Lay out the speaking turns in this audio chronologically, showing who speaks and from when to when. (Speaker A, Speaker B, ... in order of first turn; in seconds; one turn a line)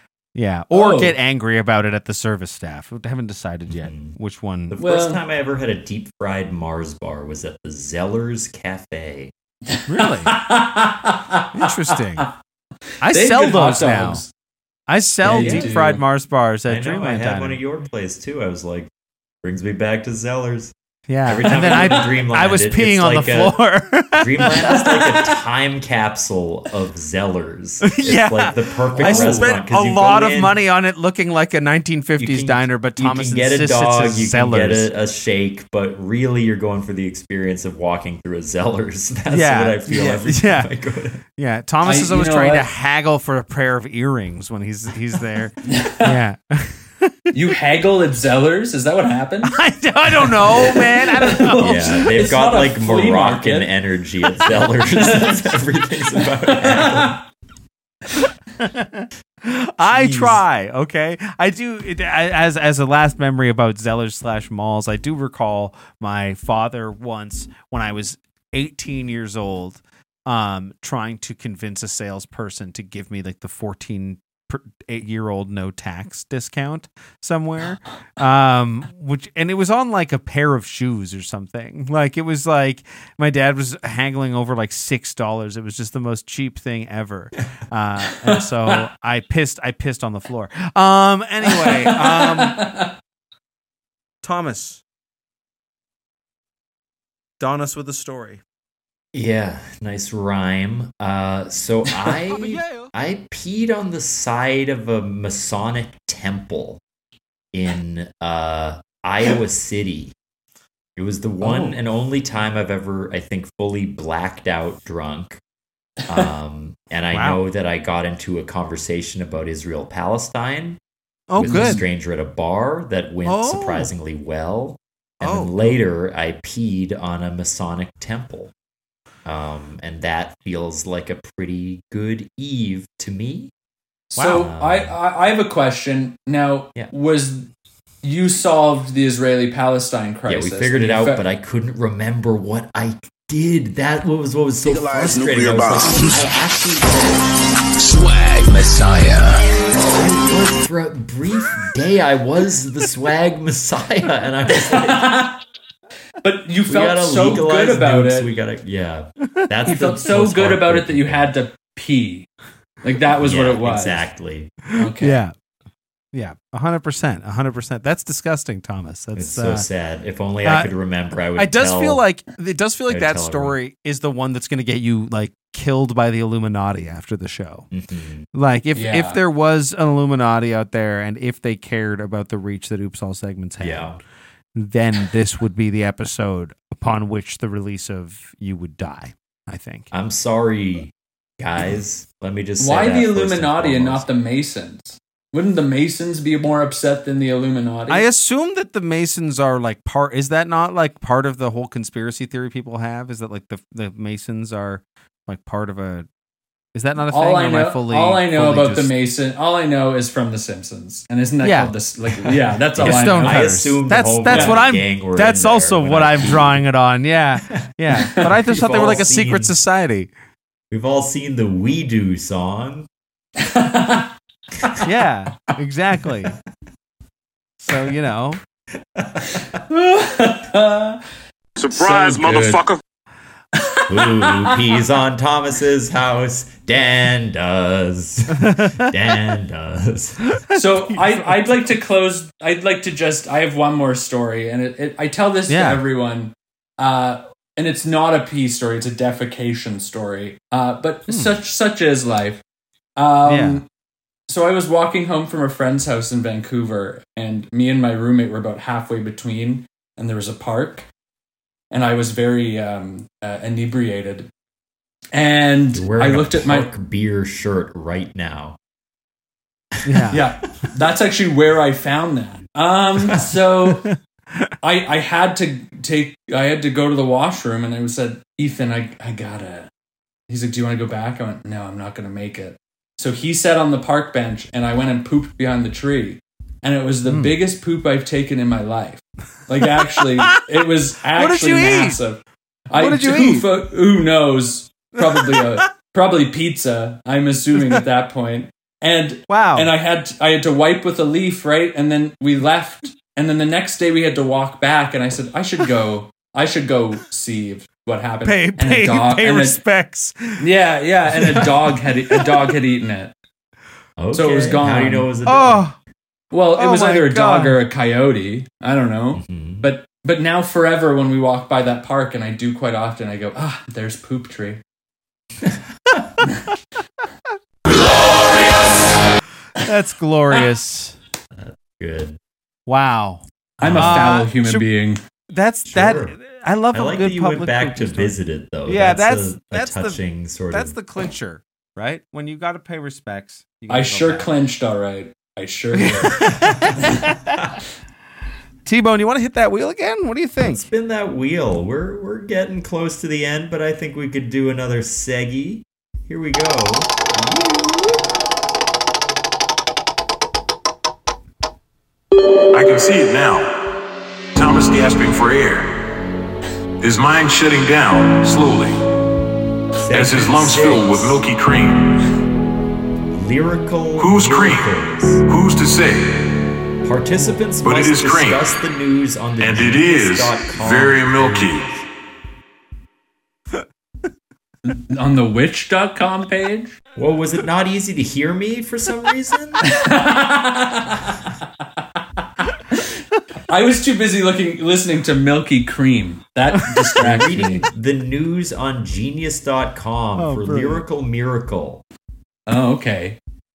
Speaker A: 0.3-4.8
Speaker B: 0.7-1.1
Speaker C: 3.7-4.2
Speaker C: 4.7-9.3
Speaker B: 4.8-5.2
Speaker B: 9.8-11.7
Speaker A: 9.9-10.3
Speaker A: 11.5-12.3
Speaker A: 13.0-14.2
Speaker B: 13.1-14.3
Speaker A: 14.9-17.6
Speaker B: 15.2-16.0
Speaker C: 15.3-15.8
Speaker C: 16.7-18.9
Speaker C: 19.4-20.7
Speaker A: 21.1-25.3
Speaker C: 21.2-23.6
Speaker C: 24.1-30.6
Speaker A: 27.8-34.9
Speaker B: 28.9-29.6
Speaker C: 32.2-41.2
Speaker A: 39.3-40.7
Speaker A: 41.3-47.3
Speaker B: 41.8-42.7
Speaker B: 45.6-46.2
Speaker B: 47.3-49.6
Speaker A: 49.4-52.0
Speaker B: 50.1-53.7
Speaker C: 51.6-57.2
Speaker B: 54.9-55.6
Speaker B: 56.4-57.2
Speaker A: 58.6-92.7
Speaker C: 59.8-60.4
Speaker B: 91.5-92.9
Speaker A: 94.2-94.8
Speaker A: 97.4-98.4
Speaker C: 99.1-106.8
Speaker A: 102.3-102.9
Speaker C: 107.5-110.1
Speaker C: 111.0-115.4
Speaker A: 111.4-111.7
Speaker C: 116.1-120.8
Speaker A: 117.1-117.4
Speaker A: 121.3-121.8
Speaker C: 121.3-128.5
Speaker B: 121.4-121.8
Speaker A: 123.2-123.9
Speaker A: 125.2-125.7
Speaker C: 129.2-133.5
Speaker B: 134.1-137.5
Speaker A: 134.2-134.5
Speaker C: 134.3-134.9
Speaker B: 138.0-141.2
Speaker C: 140.3-147.1
Speaker D: 144.6-147.1
Speaker D: 147.8-149.5
Speaker C: 149.9-155.2
Speaker B: 154.6-155.4
Speaker B: 156.2-158.3
Speaker C: 156.7-161.3
Speaker B: 159.7-162.3
Speaker B: 162.8-164.1
Speaker C: 163.2-164.5
Speaker B: 164.7-165.2
Speaker A: 164.8-165.3
Speaker A: 166.1-169.7
Speaker C: 169.1-172.0
Speaker A: 170.4-170.7
Speaker A: 171.3-177.7
Speaker C: 172.9-173.6
Speaker C: 177.7-178.3
Speaker A: 178.3-184.0
Speaker B: 178.7-179.2
Speaker C: 183.6-184.0
Speaker A: 184.5-189.9
Speaker C: 189.9-194.1
Speaker B: 192.6-198.1
Speaker A: 197.9-206.1
Speaker A: 206.7-208.9
Speaker B: 207.1-213.6
Speaker A: 211.4-211.7
Speaker C: 212.7-216.6
Speaker A: 212.8-220.1
Speaker B: 214.3-214.6
Speaker C: 217.5-219.6
Speaker C: 220.7-222.9
Speaker B: 223.4-224.1
Speaker A: 224.8-226.3
Speaker A: 227.6-228.4
Speaker C: 228.9-229.3
Speaker B: 229.7-231.0
Speaker D: 231.6-232.8
Speaker B: 231.7-232.7
Speaker B: 233.5-234.6
Speaker C: 233.9-240.3
Speaker A: 238.4-238.9
Speaker B: 240.5-252.4
Speaker A: 245.5-245.8
Speaker A: 251.1-251.3
Speaker B: 253.0-253.7
Speaker A: 253.2-253.6
Speaker B: 254.3-260.9
Speaker B: 261.7-264.3
Speaker B: 265.1-266.7
Speaker C: 265.7-268.6
Speaker A: 269.8-270.2
Speaker B: 270.1-273.9
Speaker B: 274.6-279.7
Speaker B: 280.3-309.6
Speaker A: 287.1-287.4
Speaker A: 289.6-290.4
Speaker A: 291.1-292.0
Speaker A: 292.7-293.5
Speaker A: 295.0-295.6
Speaker A: 299.3-299.7
Speaker A: 308.2-310.4
Speaker B: 310.4-313.1
Speaker C: 314.0-315.7
Speaker B: 314.1-315.1
Speaker A: 315.2-315.8
Speaker B: 316.3-324.6
Speaker A: 316.6-317.6
Speaker C: 319.1-319.7
Speaker C: 325.4-326.1
Speaker A: 329.6-331.0
Speaker C: 331.3-332.2
Speaker A: 332.7-334.7
Speaker B: 333.6-335.0
Speaker C: 333.6-334.2
Speaker A: 335.3-344.3
Speaker C: 335.6-336.1
Speaker C: 336.7-340.8
Speaker B: 343.7-346.3
Speaker A: 345.7-347.4
Speaker C: 346.2-347.4
Speaker A: 348.6-350.6
Speaker C: 350.4-356.9
Speaker A: 357.1-358.0
Speaker E: 362.5-363.7
Speaker E: 364.3-365.9
Speaker E: 366.8-368.8
Speaker C: 369.8-371.2
Speaker E: 369.9-372.0
Speaker C: 373.1-375.2
Speaker E: 374.0-376.5
Speaker C: 376.8-381.8
Speaker E: 377.6-378.4
Speaker E: 379.4-381.7
Speaker B: 384.6-386.8
Speaker C: 386.9-389.7
Speaker B: 389.6-391.2
Speaker B: 393.5-397.6
Speaker C: 397.0-401.8
Speaker A: 400.1-400.8
Speaker B: 402.5-403.2